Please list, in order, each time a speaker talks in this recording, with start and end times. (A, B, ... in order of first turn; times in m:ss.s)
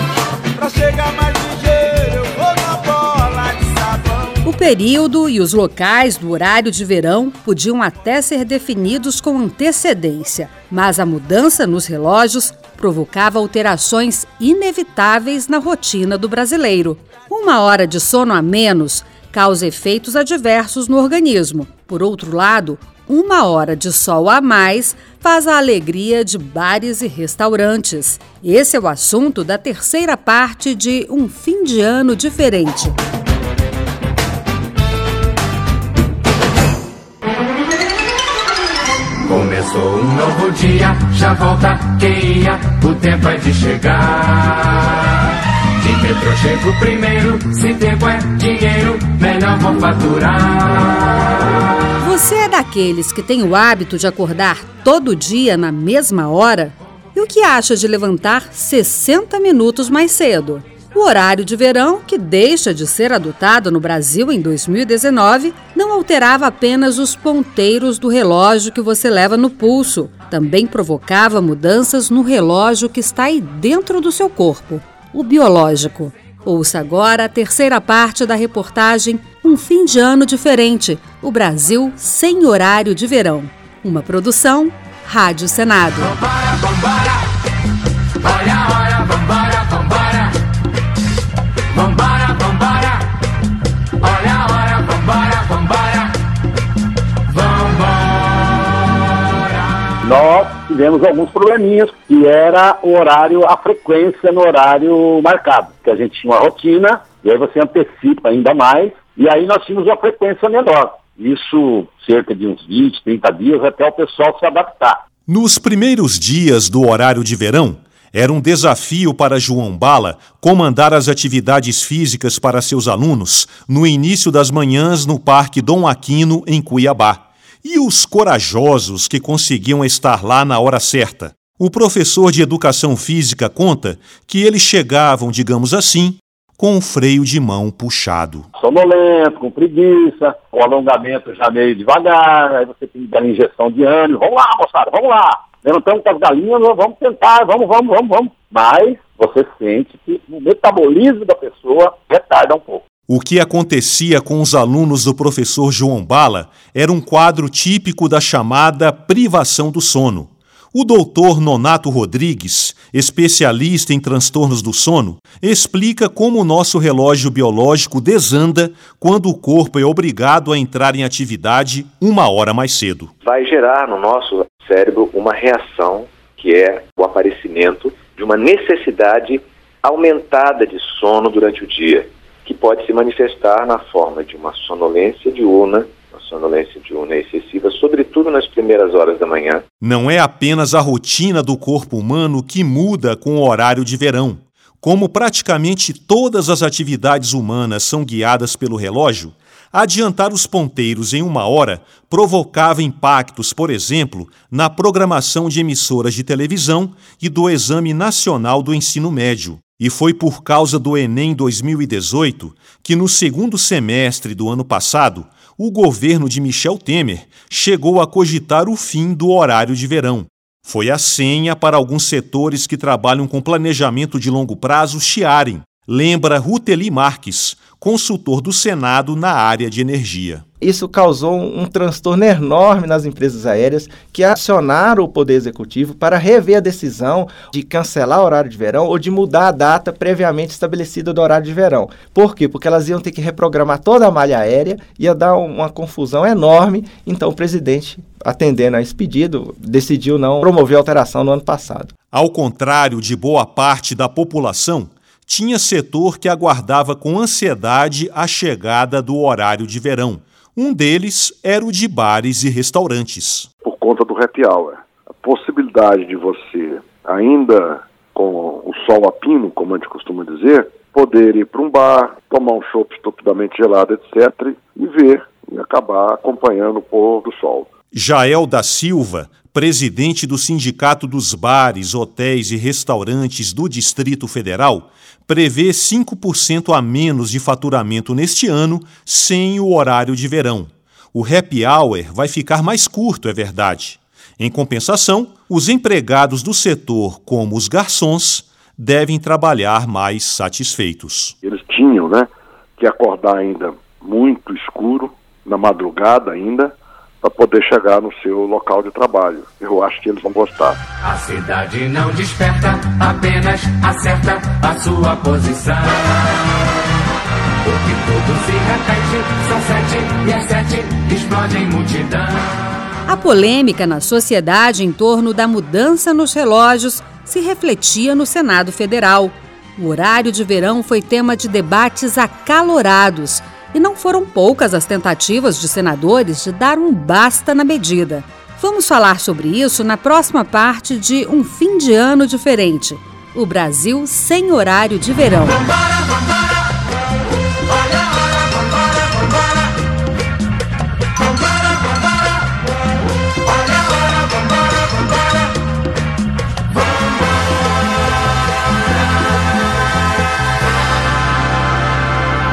0:00.6-0:04.4 A
0:04.4-0:33.0 B
0:39.3-0:45.0 C
0:45.8-0:51.0 C
0:52.0-1:26.1 B
1:26.3-1:27.1 C
1:28.2-1:30.3 C
1:31.7-1:33.0 C
1:34.0-1:36.2 C
1:37.3-1:38.4 C
1:40.0-1:55.0 D
1:55.3-2:18.5 E
2:18.6-2:32.8 D
2:33.1-2:53.1 E
2:53.2-3:09.6 F
3:09.8-3:50.4 E
3:50.6-4:11.9 G
4:12.1-4:23.5 E
4:23.6-4:37.7 H
4:37.9-5:01.4 E
5:01.4-5:10.8 H
5:11.0-5:16.1 C
5:17.6-5:22.5 C
5:23.1-5:45.6 B